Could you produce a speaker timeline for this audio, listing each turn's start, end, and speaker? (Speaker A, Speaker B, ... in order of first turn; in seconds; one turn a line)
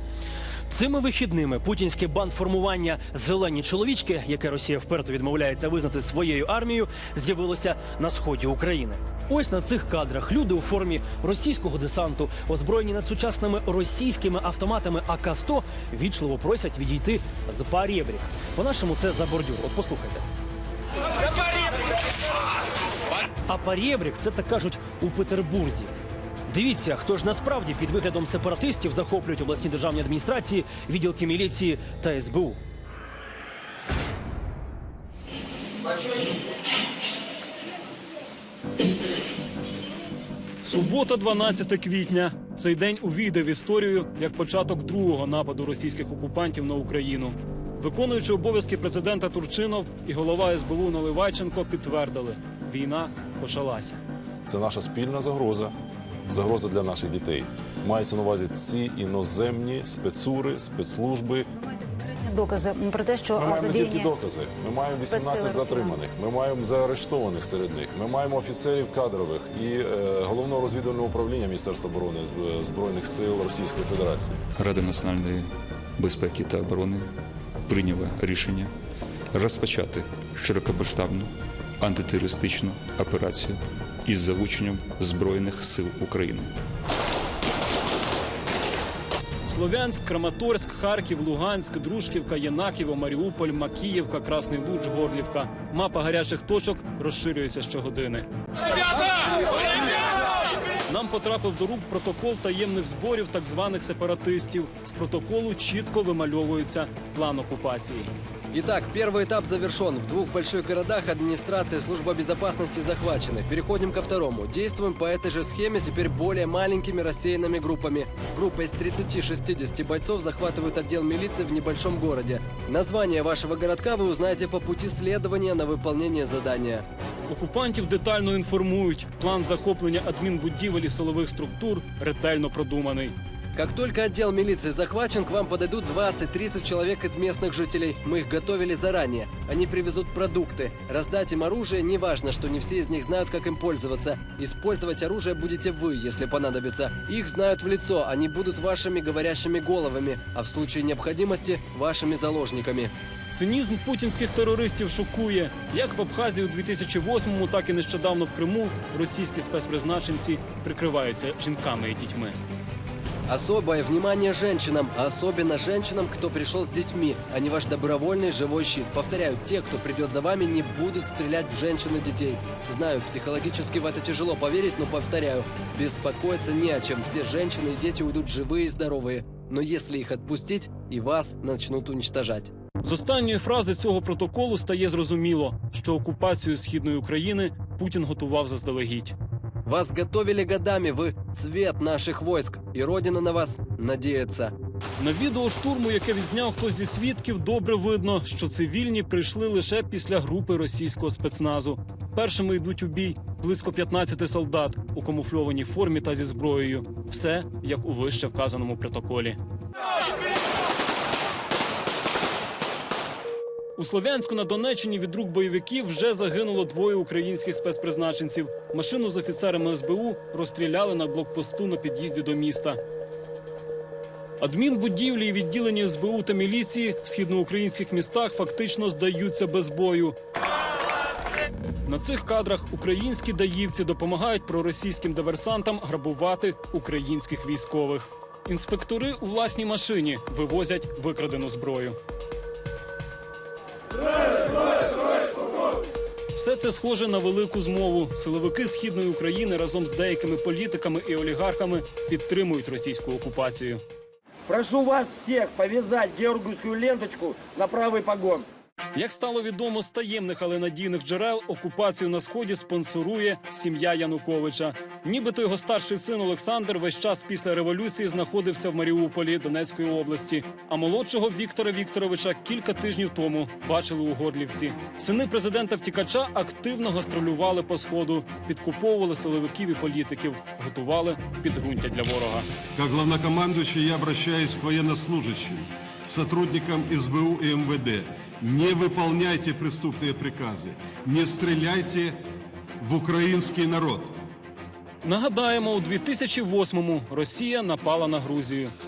Speaker A: 0.7-20.2
Speaker A: 23.5-25.9
Speaker A: 26.5-32.6
Speaker B: 40.6-54.0
Speaker C: 54.5-55.7
Speaker C: 56.3-61.5
Speaker D: 61.7-64.1
Speaker C: 63.4-74.4
Speaker D: 64.9-66.0
Speaker E: 74.6-75.5
Speaker E: 76.0-77.0
Speaker E: 77.7-78.7
Speaker E: 79.3-81.3
Speaker E: 81.8-86.5
Speaker B: 89.5-98.3
Speaker B: 100.9-108.1
Speaker F: 108.5-126.8
Speaker B: 127.3-133.2
Speaker F: 133.6-152.9
Speaker B: 153.3-162.4
Speaker F: 163.3-182.5
Speaker B: 182.8-189.2
Speaker F: 189.7-194.5
Speaker B: 195.0-209.4
Speaker B: 213.8-222.8
Speaker B: 224.4-230.2
Speaker B: 231.8-242.0
Speaker B: 246.3-253.8
Speaker G: 254.5-258.5
Speaker B: 258.9-282.5
Speaker H: 282.8-292.2
Speaker H: 292.8-294.1
Speaker B: 295.0-298.7